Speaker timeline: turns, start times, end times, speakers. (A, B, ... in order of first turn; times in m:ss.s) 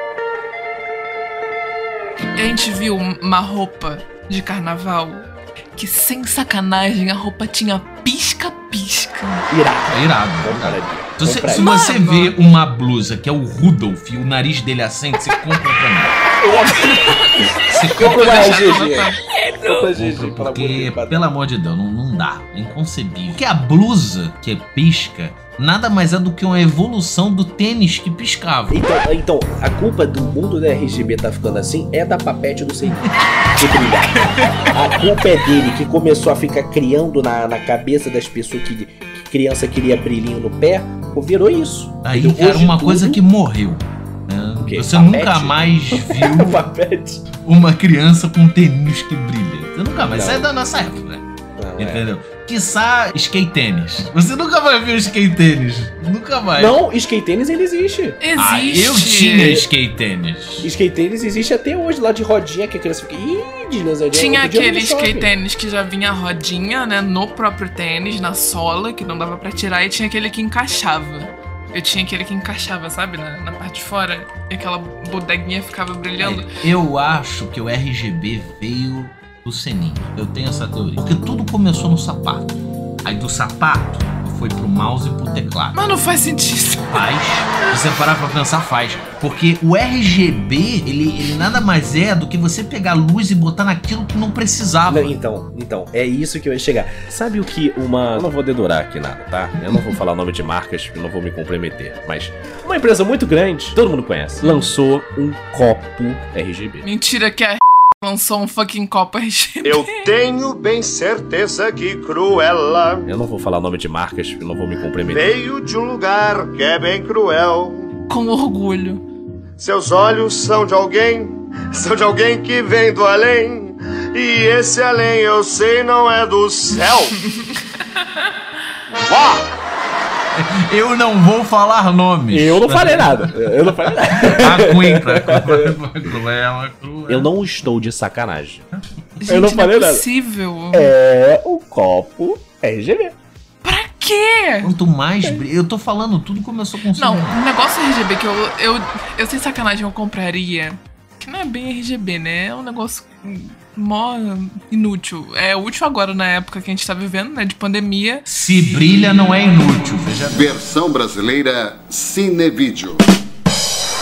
0:02.4-0:09.5 A
0:09.5-0:11.7 B
0:09.9-0:16.2 C
0:11.5-0:12.4 A
0:16.5-0:16.9 B
0:16.7-0:19.2 A
0:17.7-0:18.6 C
0:18.0-0:21.2 B
0:19.7-0:28.8 C
0:28.7-0:43.2 B
0:42.0-0:46.6 C
0:44.6-0:47.2 B
0:47.4-0:51.2 C
0:50.1-0:50.5 B
0:51.6-0:52.0 B
0:51.8-0:56.8 C
0:56.6-0:58.2 B
0:58.2-0:59.6 A
0:58.4-1:00.7 C
1:00.6-1:05.3 B
1:04.1-1:16.5 A
1:16.2-1:25.8 C
1:25.7-1:27.0 A
1:26.9-1:35.2 C
1:34.9-1:46.9 B
1:46.8-1:50.1 A
1:49.6-1:53.1 D
1:53.0-1:55.4 B
1:55.1-1:57.9 D
1:58.1-1:59.0 A
1:59.6-2:07.2 D
2:07.3-2:08.2 A
2:09.0-2:09.4 D
2:10.3-2:17.3 C
2:12.3-2:15.7 B
2:17.1-2:18.6 B
2:19.2-2:20.9 A
2:19.3-2:20.0 B
2:20.7-2:23.2 B
2:23.6-2:24.7 A
2:24.6-2:27.4 C
2:27.0-2:39.1 A
2:38.3-2:40.6 C
2:40.3-2:43.0 E